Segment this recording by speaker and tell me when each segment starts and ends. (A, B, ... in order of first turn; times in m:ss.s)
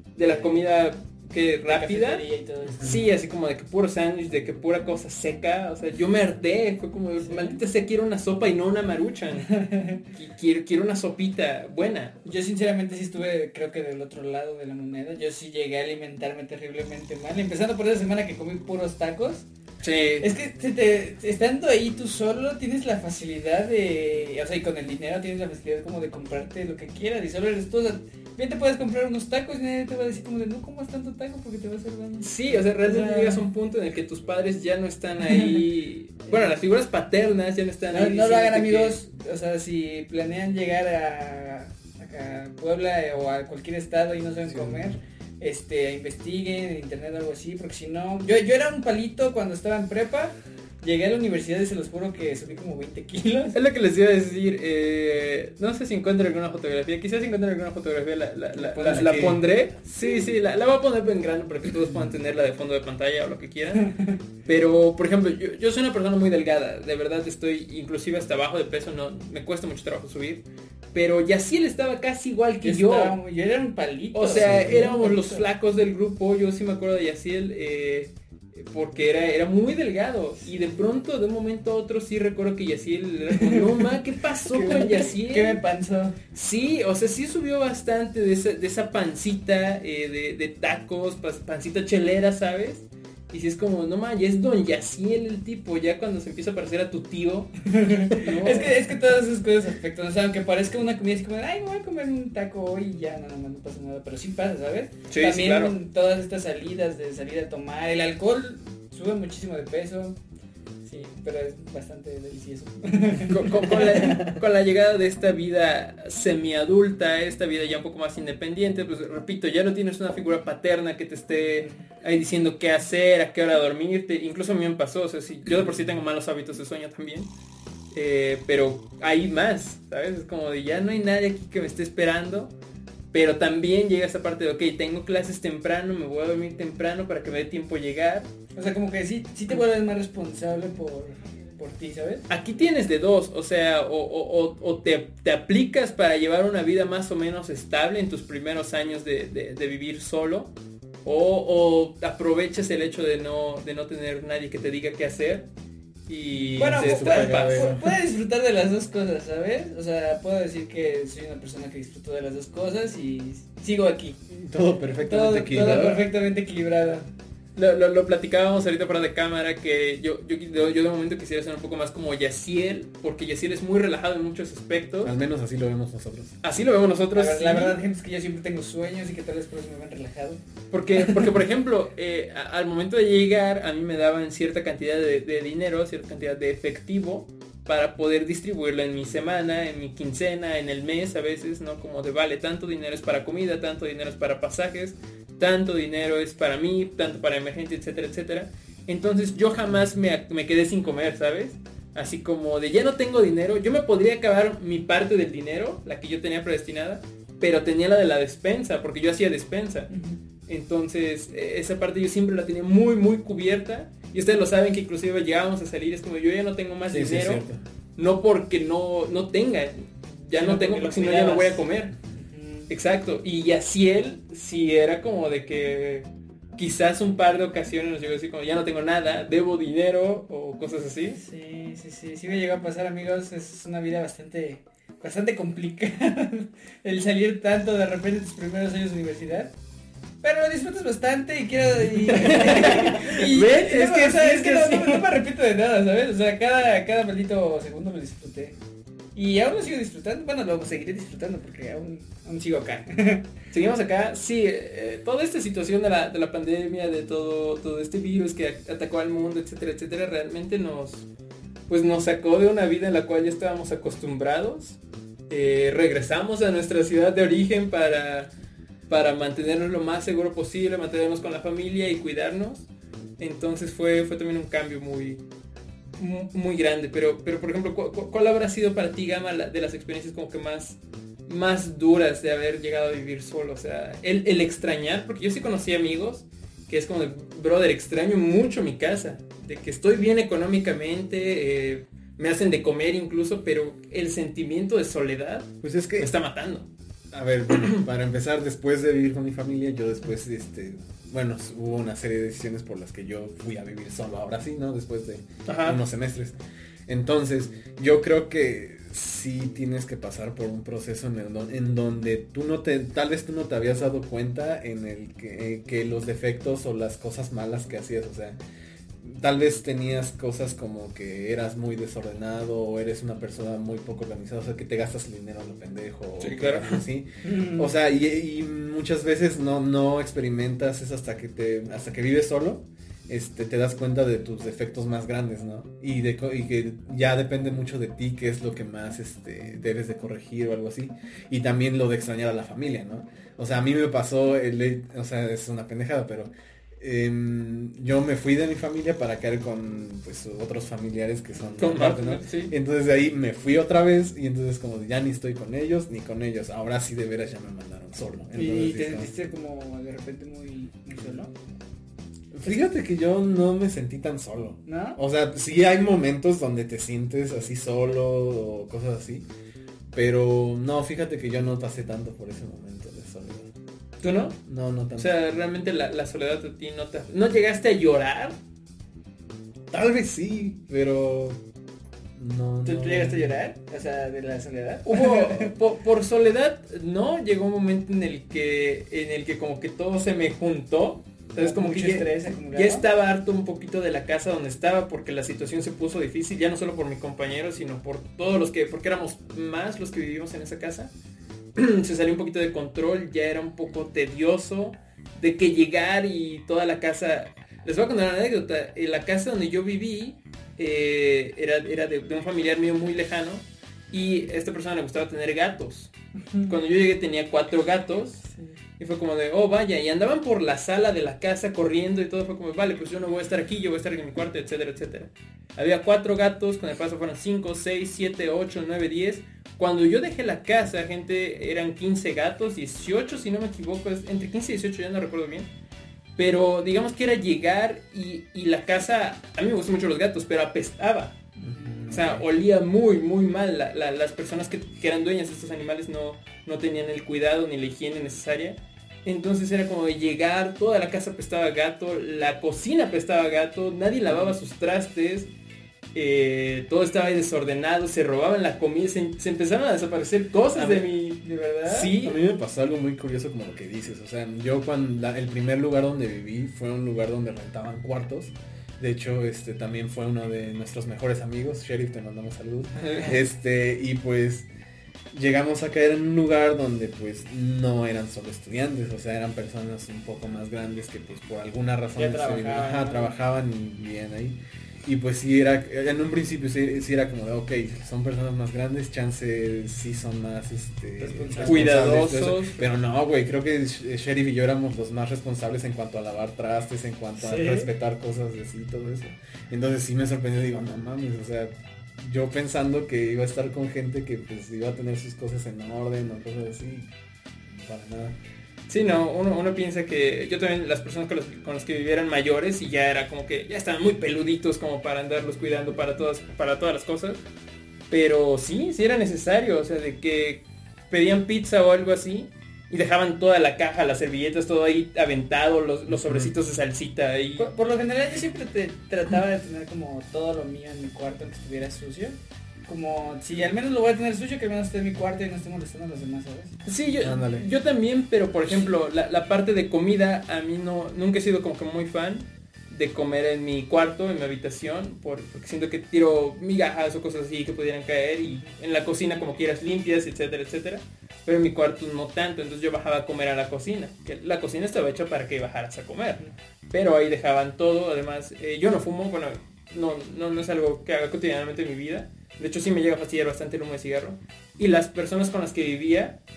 0:00.2-0:02.2 A
0:00.2-0:00.7 B
0:01.7-0:03.0 B
0:02.8-0:12.2 A
0:07.2-0:07.6 B
0:09.6-0:10.0 B
0:12.2-0:19.4 B
0:19.8-0:20.3 A
0:20.2-0:33.4 B
0:32.2-0:39.0 A
0:35.3-0:35.6 B
0:36.3-0:36.5 B
0:37.9-0:53.6 B
0:44.5-0:44.9 C
0:53.5-1:03.9 A
0:58.5-0:59.4 B
0:58.9-0:59.4 C
1:00.0-1:00.3 B
1:03.8-1:04.2 B
1:04.4-1:13.2 A
1:12.6-1:15.4 B
1:14.1-1:25.6 A
1:14.4-1:14.9 C
1:23.4-1:23.9 B
1:24.5-1:26.2 B
1:26.3-1:37.5 A
1:37.6-1:50.2 B
1:38.1-1:38.7 A
1:45.1-1:45.7 A
1:50.8-1:54.1 B
1:53.2-2:07.3 A
2:07.9-2:12.5 A
2:13.1-2:18.3 A
2:18.5-2:22.2 B
2:22.3-2:30.5 A
2:31.0-2:35.5 A
2:36.1-2:37.8 A
2:36.5-2:37.9 C
2:36.6-2:44.3 B
2:44.3-2:46.1 C
2:45.0-2:47.1 B
2:47.6-2:55.1 A
2:55.0-2:56.4 C
2:56.4-2:57.8 A
2:57.1-3:00.4 B
3:00.7-3:29.9 A
3:00.9-3:01.2 B
3:29.9-3:30.2 B
3:30.5-3:37.4 A
3:36.9-3:37.6 C
3:38.0-3:41.9 A
3:40.4-3:42.7 B
3:42.7-3:46.0 A
3:46.6-3:51.2 A
3:51.1-3:59.5 B
4:00.2-4:08.6 B
4:02.0-4:05.2 A
4:09.2-4:13.3 B
4:13.5-4:21.1 A
4:21.7-4:24.8 A
4:25.3-4:28.3 A
4:28.9-4:32.7 A
4:33.2-4:35.2 A
4:36.0-4:56.7 A
4:55.6-4:56.1 C
4:57.1-5:06.3 C
5:05.4-5:05.8 A
5:06.9-5:18.4 C
5:19.0-5:59.1 C
5:26.2-5:26.8 A
5:27.2-5:27.7 B
5:51.6-5:52.5 A
5:58.3-6:01.3 B
6:02.3-6:09.2 C
6:04.6-6:05.0 B
6:09.9-6:13.5 C
6:14.0-6:14.4 A
6:14.4-6:15.1 C
6:14.9-6:18.4 A
6:19.7-6:21.4 C
6:22.2-6:23.3 C
6:22.6-6:25.5 B
6:24.8-6:40.9 A
6:31.4-6:32.8 B
6:41.6-6:55.9 A
6:56.4-6:58.2 A
6:58.8-7:15.5 A
7:16.2-7:21.2 A
7:21.4-7:21.8 B
7:21.4-7:22.2 C
7:21.9-7:35.3 A
7:35.9-7:42.2 A
7:40.5-7:41.9 B
7:42.0-7:54.5 C
7:52.8-7:53.1 A
7:55.1-8:26.9 C
8:02.0-8:03.1 B
8:11.0-8:11.8 B
8:11.4-8:12.6 A
8:17.2-8:17.7 B
8:27.5-8:28.2 C
8:28.7-8:37.2 A
8:37.9-8:47.5 A
8:47.4-8:56.6 B
8:56.6-9:26.2 A
8:57.0-8:57.4 C